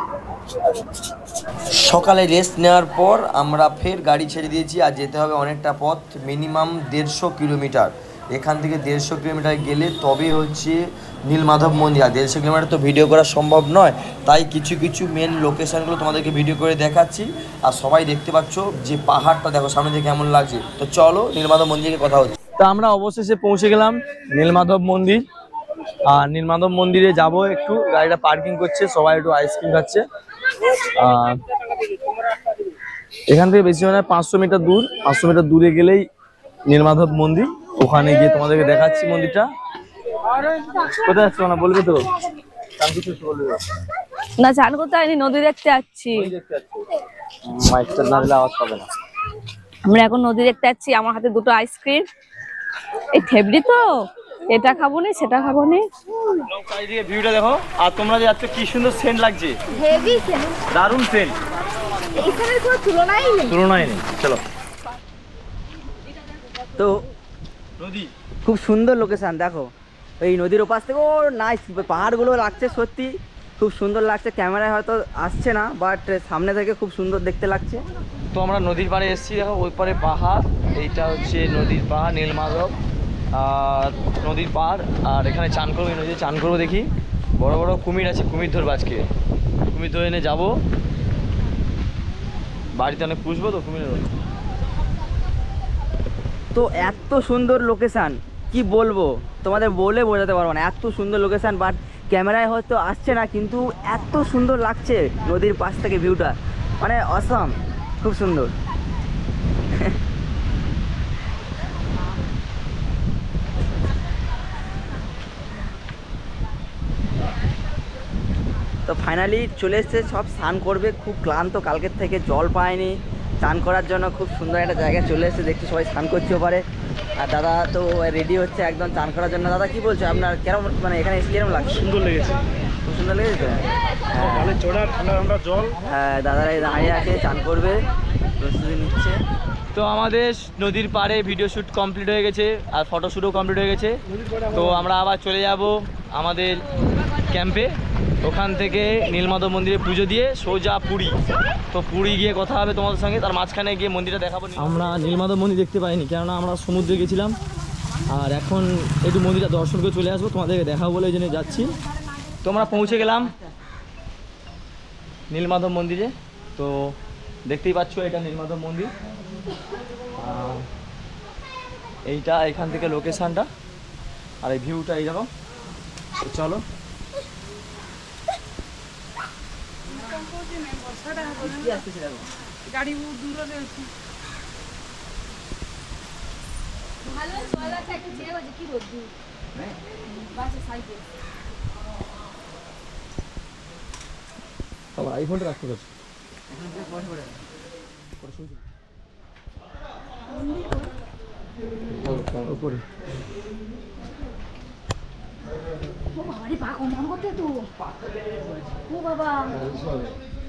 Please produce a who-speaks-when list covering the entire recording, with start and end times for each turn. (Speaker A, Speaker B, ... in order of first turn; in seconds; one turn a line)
Speaker A: 1.7-25.2
Speaker A: 26.1-30.0
Speaker A: 30.8-31.4
Speaker B: 31.7-32.2
Speaker A: 33.3-36.0
Speaker A: 36.7-39.5
Speaker A: 40.7-42.1
Speaker A: 42.6-43.6
Speaker C: 44.4-46.3
Speaker A: 46.1-46.8
Speaker A: 47.4-48.9
Speaker C: 49.9-52.1
Speaker C: 53.1-55.9
Speaker A: 56.4-59.6
Speaker D: 59.8-60.5
Speaker A: 60.7-61.4
Speaker D: 62.2-63.4
Speaker A: 63.4-64.4
Speaker E: 66.8-67.1
Speaker A: 67.8-68.1
Speaker E: 68.4-77.8
Speaker A: 78.3-82.8
Speaker A: 83.3-89.1
Speaker A: 89.7-90.6
Speaker A: 92.8-94.0
Speaker E: 96.5-108.5
Speaker E: 118.9-126.6
Speaker E: 127.2-134.7
Speaker B: 134.8-135.7
Speaker E: 135.9-137.8
Speaker E: 138.4-139.2
Speaker A: 139.7-146.6
Speaker A: 147.3-151.2
Speaker A: 151.7-157.4
Speaker A: 158.1-161.7
Speaker A: 162.4-163.3
Speaker A: 165.3-166.9
Speaker A: 167.5-168.9
Speaker A: 170.2-170.7
Speaker A: 172.1-173.5
Speaker A: 174.4-175.3
Speaker A: 176.2-176.6
Speaker B: 180.0-181.5
Speaker E: 181.5-182.1
Speaker B: 182.8-183.8
Speaker A: 195.0-195.9
Speaker A: 202.0-202.8